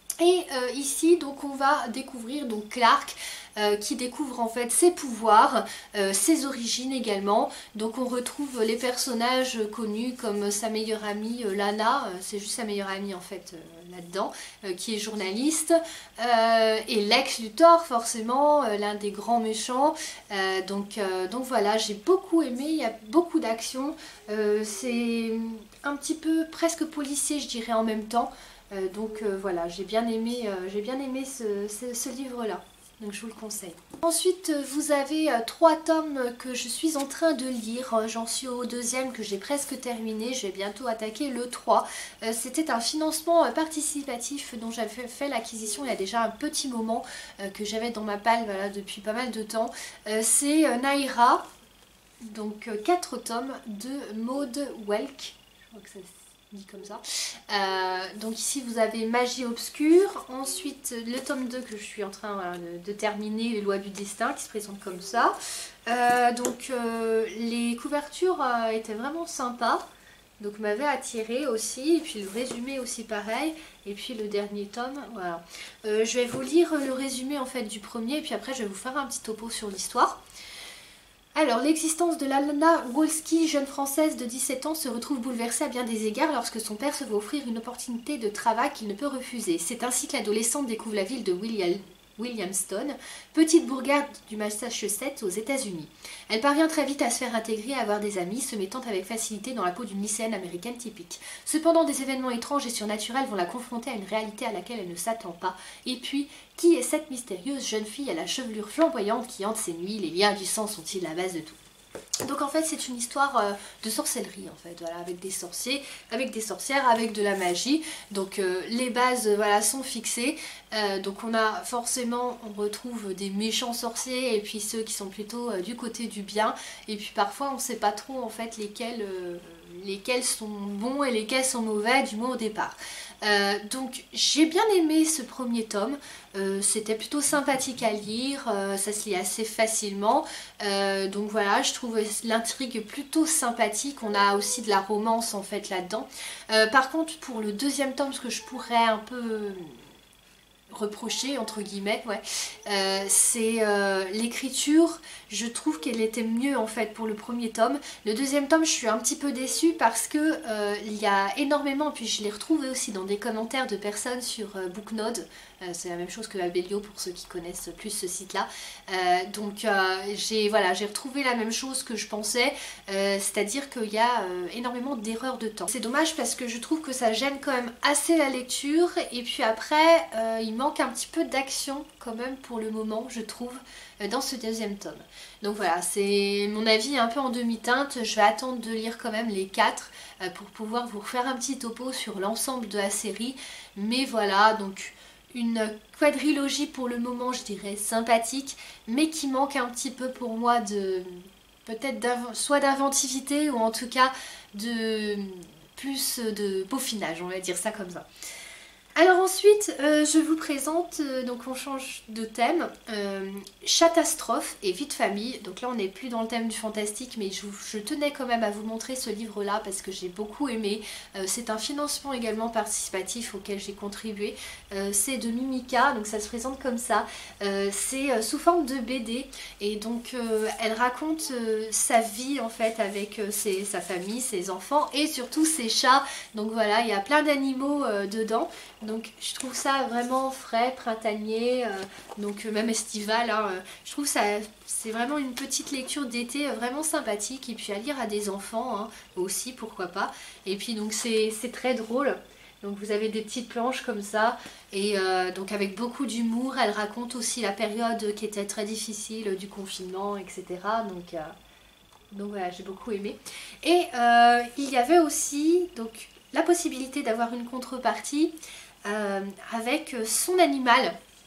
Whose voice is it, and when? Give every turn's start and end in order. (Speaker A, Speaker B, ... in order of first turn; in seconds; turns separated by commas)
Speaker A: 0.2-51.4, Speaker A: 52.2-65.3, Speaker A: 65.9-69.8, Speaker A: 70.4-80.2, Speaker A: 81.3-111.6, Speaker A: 112.2-149.8, Speaker A: 150.7-208.1, Speaker A: 209.0-261.4, Speaker A: 262.1-270.9